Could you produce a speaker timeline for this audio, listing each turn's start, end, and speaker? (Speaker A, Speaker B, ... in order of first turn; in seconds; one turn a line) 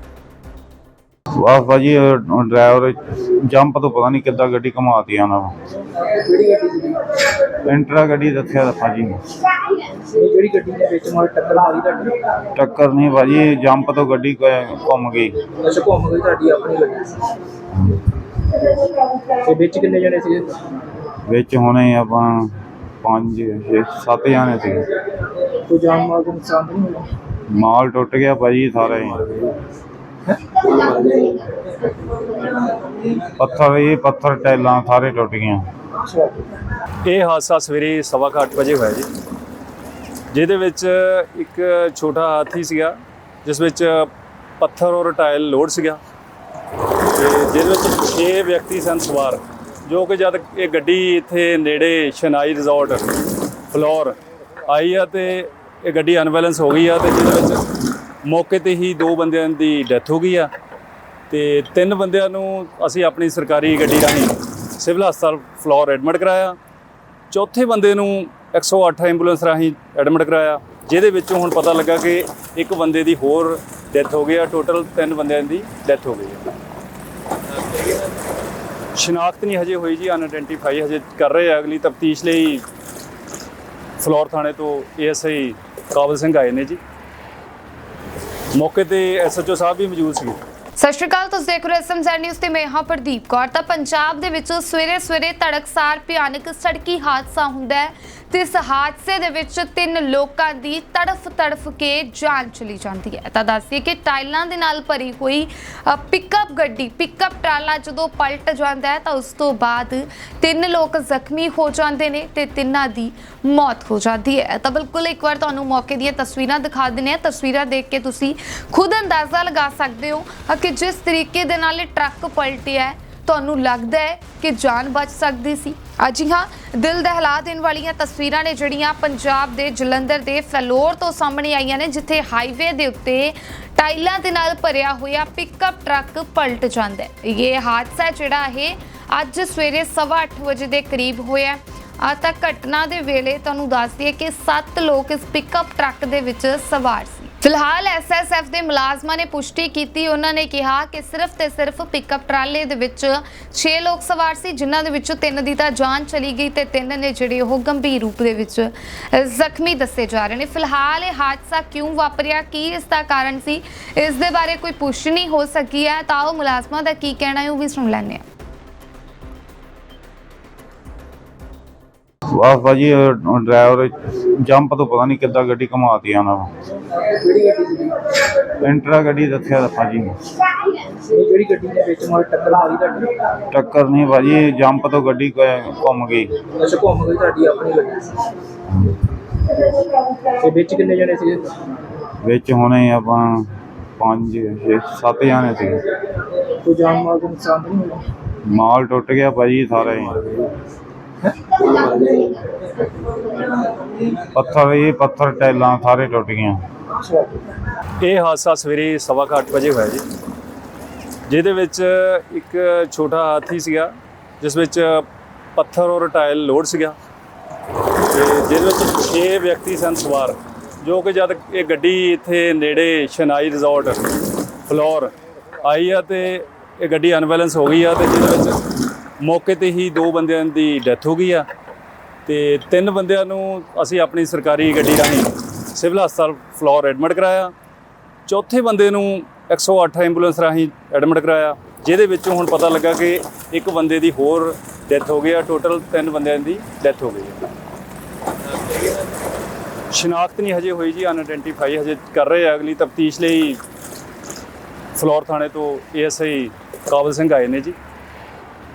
Speaker A: 1.4-5.5
Speaker B: 6.0-7.0
Speaker A: 7.6-9.2
Speaker B: 10.0-12.2
Speaker A: 12.6-15.4
Speaker B: 15.6-17.3
Speaker B: 19.3-20.6
Speaker A: 21.3-24.9
Speaker B: 25.7-27.1
Speaker A: 27.5-29.5
Speaker B: 30.6-31.4
Speaker A: 33.4-35.6
Speaker C: 37.0-39.1
Speaker C: 40.3-46.0
Speaker C: 47.1-53.1
Speaker C: 53.7-57.6
Speaker C: 58.2-60.5
Speaker C: 61.3-66.6
Speaker C: 67.3-76.5
Speaker C: 77.6-78.1
Speaker C: 79.0-82.7
Speaker C: 84.0-86.8
Speaker C: 88.5-90.4
Speaker D: 90.8-168.2
Speaker A: 172.3-176.5
Speaker B: 177.0-178.0
Speaker A: 178.6-180.3
Speaker B: 181.0-183.2
Speaker A: 183.5-186.4
Speaker B: 186.6-188.3
Speaker A: 188.7-189.0
Speaker B: 190.2-191.5
Speaker A: 192.2-195.9
Speaker B: 196.6-198.0
Speaker A: 198.4-200.5
Speaker B: 201.4-202.4
Speaker A: 204.3-206.6
Speaker C: 208.0-210.0
Speaker C: 211.3-217.0
Speaker C: 218.1-224.0
Speaker C: 224.7-228.6
Speaker C: 229.2-231.5
Speaker C: 232.3-237.5
Speaker C: 238.3-247.4
Speaker C: 248.5-249.1
Speaker C: 249.9-253.6
Speaker C: 254.9-257.8